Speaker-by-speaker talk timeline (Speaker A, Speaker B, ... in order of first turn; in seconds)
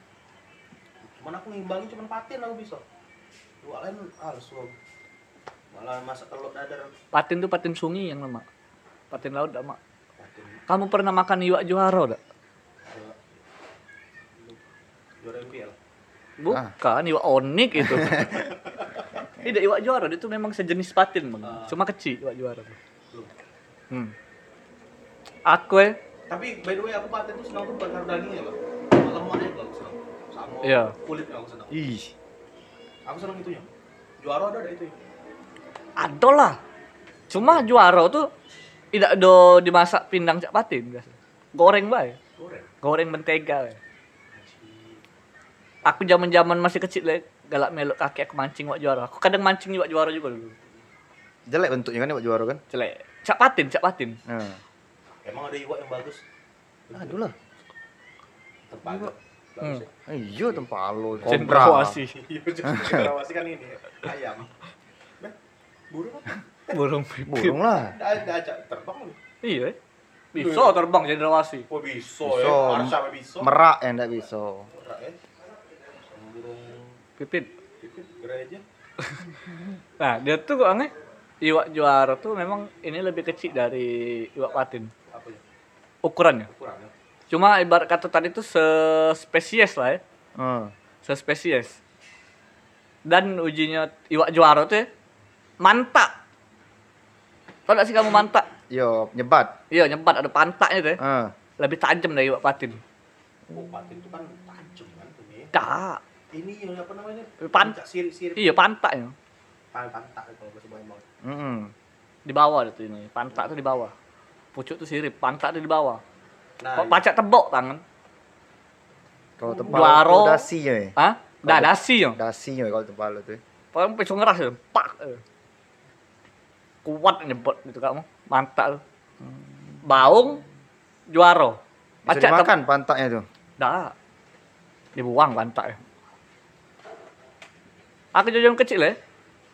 Speaker A: 1.1-2.8, 3.6-4.7, 5.7-6.9, 10.2-10.6, 12.9-13.4, 15.2-15.8, 18.3-19.1, 21.4-21.8, 26.3-31.8, 33.1-33.7, 34.2-35.0, 42.4-42.7, 44.3-45.0, 55.2-56.2, 56.9-57.2, 58.7-59.9, 61.1-61.6, 62.1-64.5, 65.9-66.8, 67.7-69.2, 70.4-70.8, 71.7-73.6, 74.7-75.2, 76.0-77.0, 77.8-78.6, 85.1-85.4, 86.5-86.9, 103.5-105.5, 106.3-108.5, 109.7-111.0, 116.6-117.0, 119.4-120.0
Speaker B: 7.1-8.4, 9.1-9.8, 10.7-12.2, 16.4-18.3, 19.4-22.8, 25.5-26.0, 30.6-30.9, 36.0-36.6, 37.3-38.3, 38.9-42.2, 42.8-43.8, 45.9-50.6, 52.7-54.2, 61.3-62.1, 66.7-67.6, 69.4-69.8, 70.3-71.7, 77.2-77.5, 80.0-84.9, 86.0-86.5, 87.3-90.0, 91.0-91.8, 93.1-94.9, 95.6-96.1, 97.7-98.5, 99.7-101.0, 101.6-102.8, 105.5-106.0, 107.4-107.8, 108.4-109.1, 112.3-113.9, 114.5-116.0, 116.8-117.8, 119.7-120.5, 121.0-122.2, 123.7-125.2, 126.8-128.8, 129.8-130.4, 131.1-132.5, 133.6-133.9, 135.0-135.8, 138.1-139.0
Speaker C: 17.8-18.5, 31.7-32.1, 51.5-52.6, 54.3-54.6, 57.0-57.3, 60.1-62.0, 62.7-63.1, 67.3-68.0, 72.2-74.7, 90.4-90.7, 98.7-99.6, 101.0-101.3, 111.2-111.7, 119.4-123.4, 129.2-129.8, 132.1-133.2